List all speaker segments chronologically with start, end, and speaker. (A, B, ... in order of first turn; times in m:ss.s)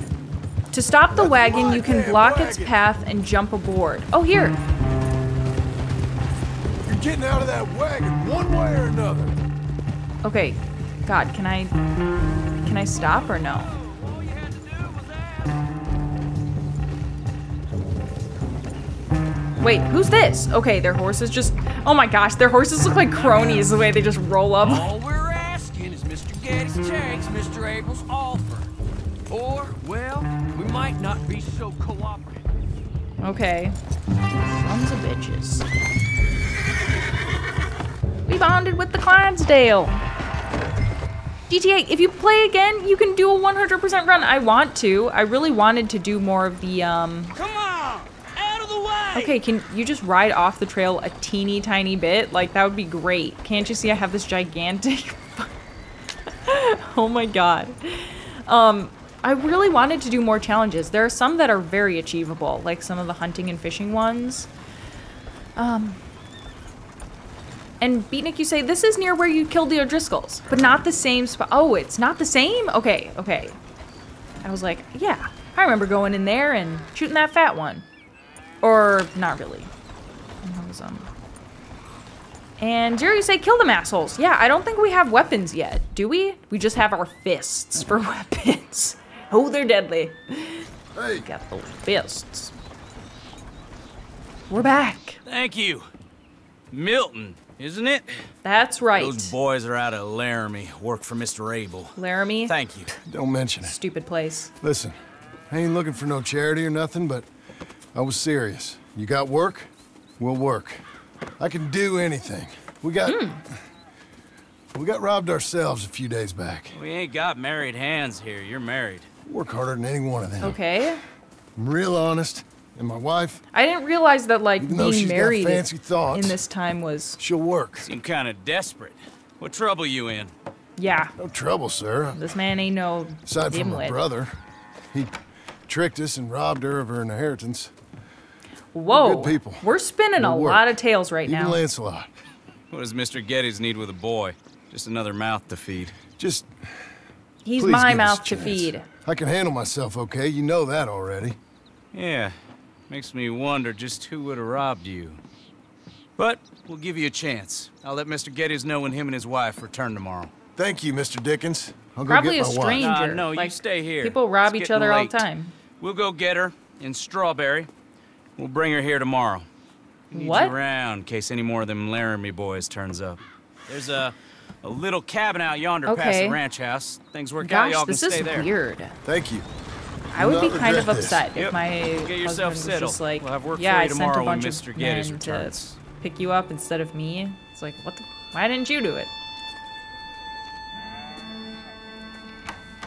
0:00.7-0:04.6 A
0:01.1-0:02.8 B
0:06.8-0:09.3 B
0:10.2-0:11.7 A
0:12.6-0:13.7 A
0:13.7-0:15.4 C
0:19.6-0:24.9 A
0:24.6-0:28.6 C
0:29.3-0:32.3 C
0:33.2-0:33.8 A
0:34.5-0:35.6 A
0:38.3-0:40.0 A
0:41.5-0:47.3 A
0:47.4-0:49.3 C
0:49.1-0:55.5 A
0:56.4-1:04.5 A
1:05.6-1:06.0 A
1:07.8-1:13.6 A
1:14.4-1:17.8 A
1:18.6-1:19.7 A
1:20.4-1:21.1 A
1:22.6-1:30.6 A
1:30.9-1:31.3 B
1:31.2-1:32.5 A
1:34.5-1:35.2 A
1:35.2-1:35.9 D
1:36.7-1:38.1 D
1:38.4-1:39.3 A
1:38.9-1:41.9 D
1:42.0-1:42.5 A
1:42.5-1:42.9 D
1:43.1-1:43.7 B
1:43.6-1:44.5 A
1:44.6-1:45.0 B
1:45.5-1:47.3 B
1:47.9-1:50.8 B
1:51.4-1:53.6 B
1:53.1-1:53.4 A
1:54.7-1:56.8 B
1:56.7-1:59.1 D
1:59.3-2:00.6 B
2:00.4-2:01.0 A
2:01.6-2:03.4 B
2:03.5-2:07.2 A
2:04.6-2:06.4 B
2:07.2-2:07.9 B
2:07.8-2:10.3 D
2:10.8-2:11.1 A
2:11.2-2:12.2 B
2:12.1-2:14.0 A
2:13.3-2:14.4 B
2:15.7-2:17.7 B
2:18.7-2:21.6 A
2:18.9-2:19.6 B
2:20.2-2:20.6 B
2:21.2-2:22.1 B
2:22.7-2:25.9 D
2:26.2-2:26.5 B
2:27.4-2:28.8 A
2:27.6-2:31.4 B
2:31.9-2:32.4 D
2:32.9-2:35.2 D
2:36.2-2:40.3 D
2:40.6-2:42.9 B
2:42.1-2:45.5 A
2:42.8-2:45.3 D
2:45.8-2:47.7 D
2:48.4-2:49.5 D
2:50.1-2:50.6 A
2:50.1-2:58.5 D
2:55.9-2:56.4 A
2:57.4-2:59.0 A
2:59.0-2:59.4 B
3:00.1-3:09.1 A
3:00.1-3:01.3 B
3:01.4-3:05.8 D